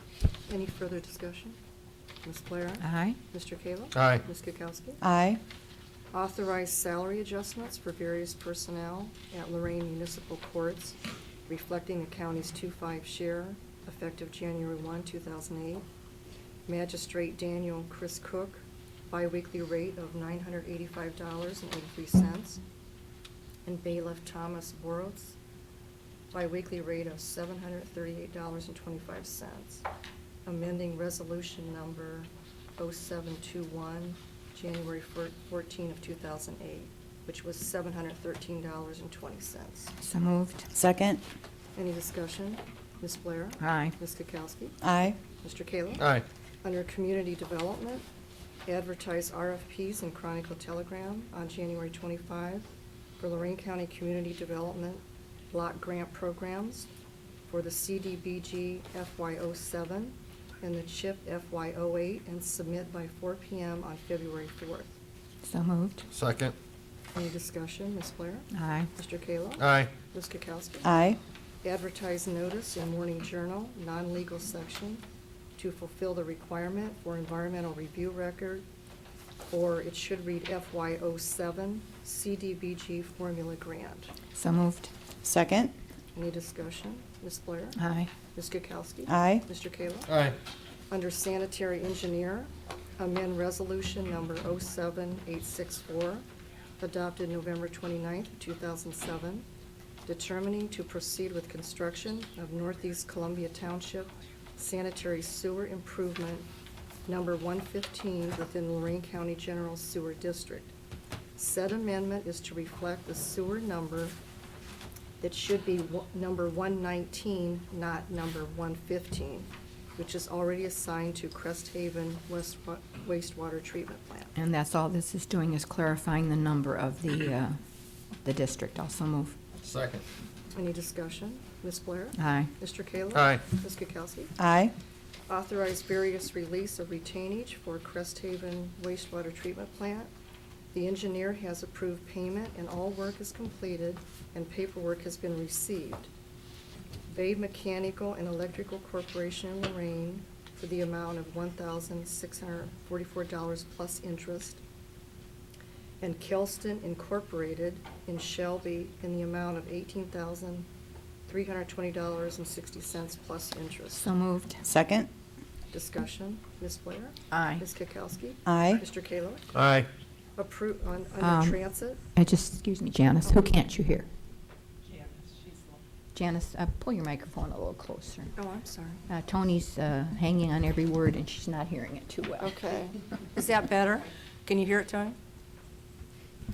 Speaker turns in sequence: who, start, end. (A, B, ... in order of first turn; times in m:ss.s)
0:00.5-0:01.6 A
0:02.2-0:05.0 A
0:02.8-0:03.2 B
0:03.9-0:04.2 C
0:05.0-0:05.4 D
0:06.1-0:11.0 A
0:11.5-0:15.8 A
0:16.7-0:22.6 A
0:23.6-0:25.4 A
0:26.3-0:29.8 A
0:30.4-0:39.9 A
0:40.0-0:40.7 B
0:40.7-0:41.2 D
0:41.7-0:44.8 A
0:43.6-0:43.9 B
0:44.8-0:45.2 D
0:45.4-0:46.0 A
0:46.0-0:46.2 C
0:46.6-0:48.0 A
0:48.6-0:52.7 A
0:53.2-0:56.9 A
0:57.5-1:05.0 A
1:05.4-1:06.0 B
1:06.1-1:06.5 C
1:07.1-1:10.9 A
1:08.5-1:08.9 B
1:09.6-1:10.0 C
1:10.8-1:11.2 D
1:11.6-1:15.0 A
1:15.6-1:18.6 A
1:19.5-1:24.1 A
1:24.3-1:24.9 B
1:25.2-1:25.7 D
1:26.1-1:27.8 A
1:27.8-1:28.1 B
1:28.3-1:30.1 A
1:29.1-1:29.4 D
1:30.1-1:30.4 C
1:30.9-1:36.2 A
1:36.8-1:39.4 A
1:40.0-1:46.5 A
1:47.1-1:50.7 A
1:51.4-1:54.2 A
1:55.2-2:04.3 A
2:04.3-2:07.6 B
2:08.2-2:09.4 B
2:09.6-2:10.0 C
2:10.5-2:14.3 A
2:12.2-2:12.5 B
2:13.1-2:13.4 C
2:14.4-2:14.7 D
2:15.3-2:20.1 A
2:20.7-2:26.1 A
2:27.1-2:34.6 A
2:36.0-2:40.7 A
2:41.3-2:44.1 A
2:43.9-2:44.6 B
2:44.6-2:45.1 D
2:45.7-2:49.5 A
2:47.3-2:47.6 B
2:48.4-2:48.8 D
2:49.5-2:49.9 C
2:50.4-2:52.0 A
2:51.2-2:51.6 B
2:52.1-2:54.1 B
2:56.1-2:58.3 B
2:58.4-2:59.0 A
2:59.1-3:02.6 B
3:02.4-3:05.2 A